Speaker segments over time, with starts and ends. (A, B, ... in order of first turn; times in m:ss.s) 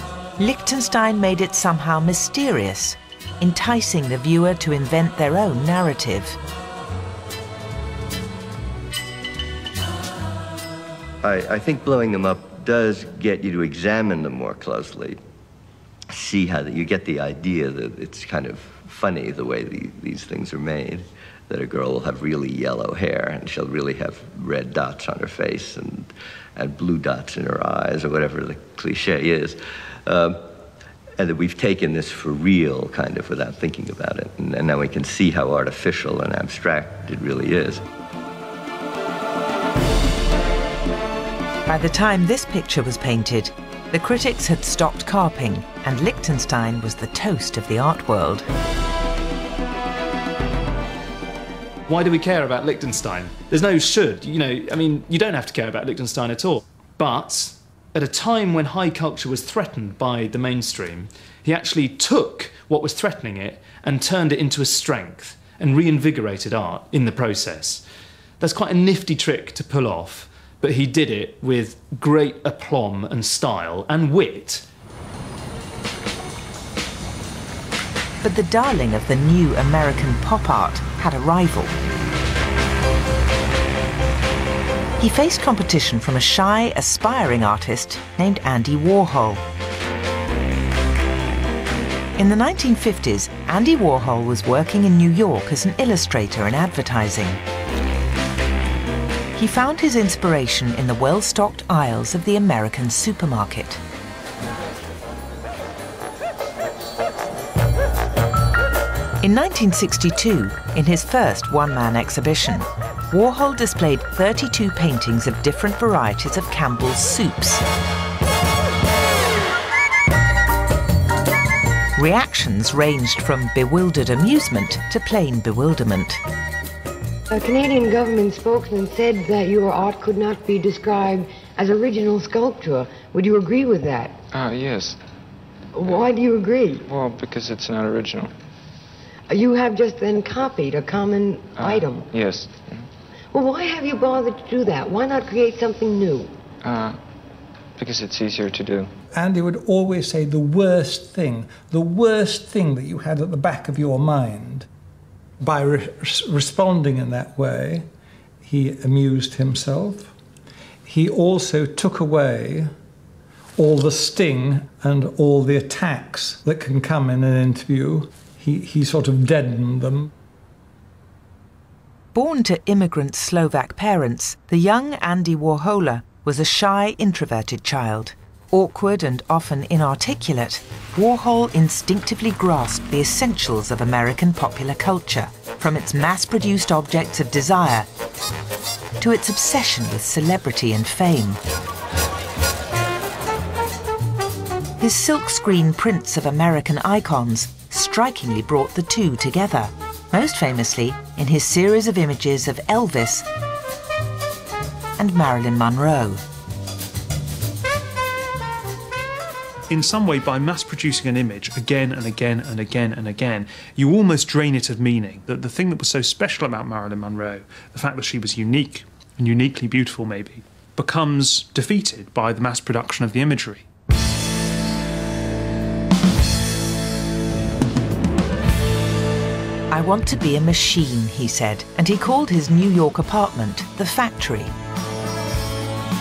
0:00.4-0:06.4 A
0:11.2-0:15.2 B
0:16.1-0:30.4 B
0:31.2-0:37.8 B
0:41.7-0:48.5 A
0:51.9-1:07.8 C
1:08.4-1:14.6 C
1:18.2-1:21.8 A
1:25.0-1:29.4 A
1:32.2-1:37.4 A
1:39.4-1:43.8 A
1:49.2-1:57.6 A
2:02.0-2:06.2 A
2:07.3-2:14.2 D
2:14.3-2:15.0 E
2:15.8-2:16.9 D
2:16.9-2:18.3 E
2:19.3-2:22.1 D
2:21.5-2:22.9 E
2:23.3-2:26.3 D
2:26.6-2:27.0 E
2:27.8-2:28.9 E
2:29.1-2:34.7 F
2:35.4-2:37.9 F
2:38.4-2:40.1 F
2:40.9-2:42.7 F
2:43.6-2:50.1 F
2:52.1-3:07.9 A
3:09.0-3:11.4 A
3:14.8-3:23.3 A
3:25.0-3:26.2 A
3:29.7-3:43.6 G
3:49.7-3:54.5 A